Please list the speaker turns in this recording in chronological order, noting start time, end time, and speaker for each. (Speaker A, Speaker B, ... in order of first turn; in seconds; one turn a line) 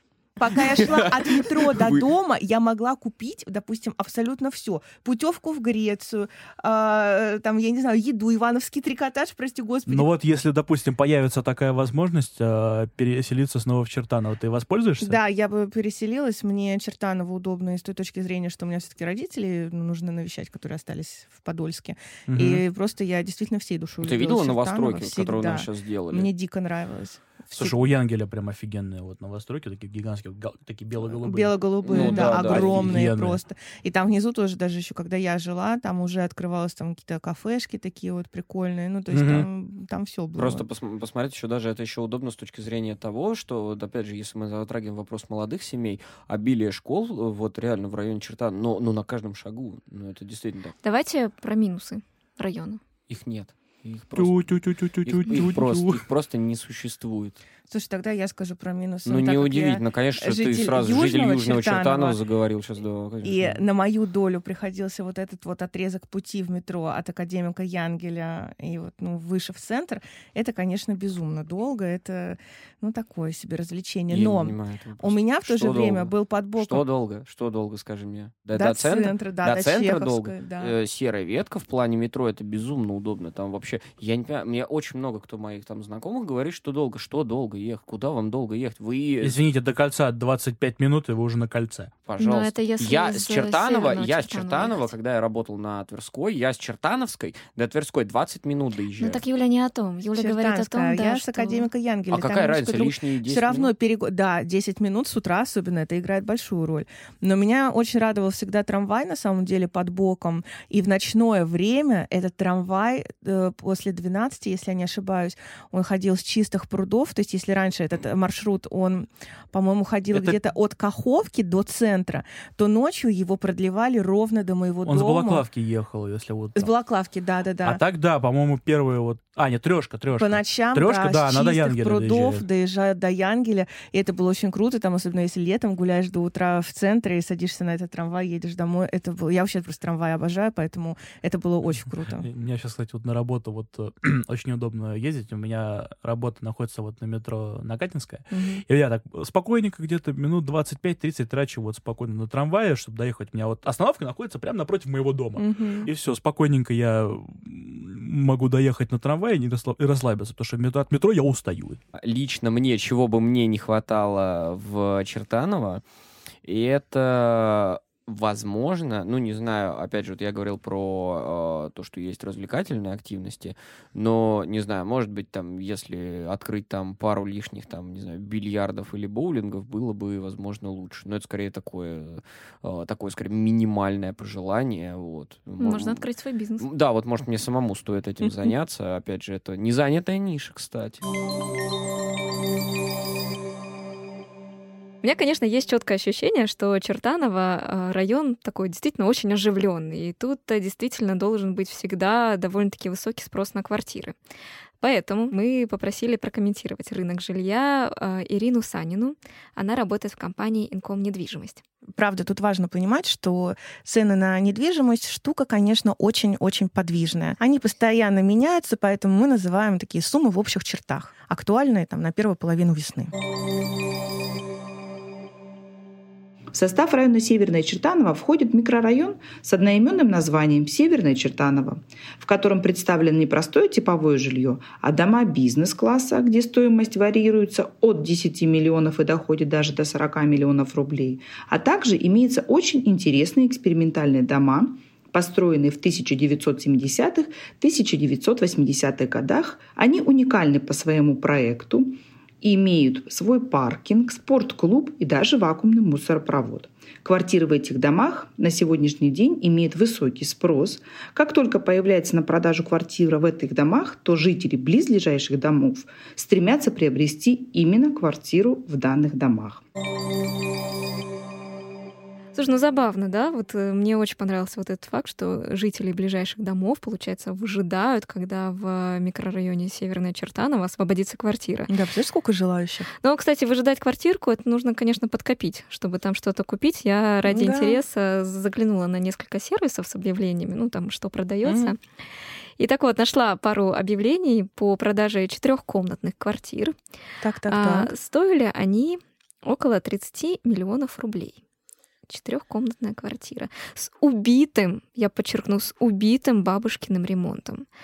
Speaker A: 0.4-10.1
Speaker B: 0.5-2.0
Speaker C: 9.9-15.2
Speaker A: 15.0-27.9
Speaker C: 22.2-22.6
Speaker B: 24.0-26.3
Speaker C: 27.5-33.4
Speaker A: 31.1-40.6
Speaker B: 31.8-32.9
Speaker C: 39.1-39.5
Speaker B: 40.4-50.7
Speaker D: 50.8-52.8
Speaker B: 53.1-57.4
Speaker C: 54.1-56.0
Speaker A: 57.7-62.2
Speaker B: 59.0-63.6
Speaker A: 63.2-76.8
Speaker B: 74.1-89.4
Speaker A: 78.5-80.7
Speaker C: 89.2-91.9
Speaker B: 92.0-99.2
Speaker D: 92.2-94.9
Speaker D: 99.0-101.7
Speaker A: 100.1-125.5
Speaker B: 102.1-103.7
Speaker C: 120.1-120.4
Speaker C: 124.8-126.7
Speaker A: 126.5-127.8
Speaker C: 127.6-132.4
Speaker A: 130.2-142.3
Speaker C: 142.2-161.8
Speaker A: 148.3-148.6
Speaker A: 155.4-155.9
Speaker B: 161.9-165.8
Speaker B: 166.4-186.0
Speaker D: 185.6-186.7
Speaker B: 186.6-191.0
Speaker D: 195.0-204.1
Speaker D: 204.8-211.6
Speaker A: 212.0-223.1
Speaker E: 226.5-269.6
Speaker D: 272.3-281.7
Speaker A: 281.7-282.9
Speaker D: 283.0-291.8
Speaker A: 287.3-287.8
Speaker A: 291.4-291.7
Speaker D: 292.6-296.7
Speaker A: 297.2-297.9
Speaker D: 297.5-301.4
Speaker D: 302.1-307.6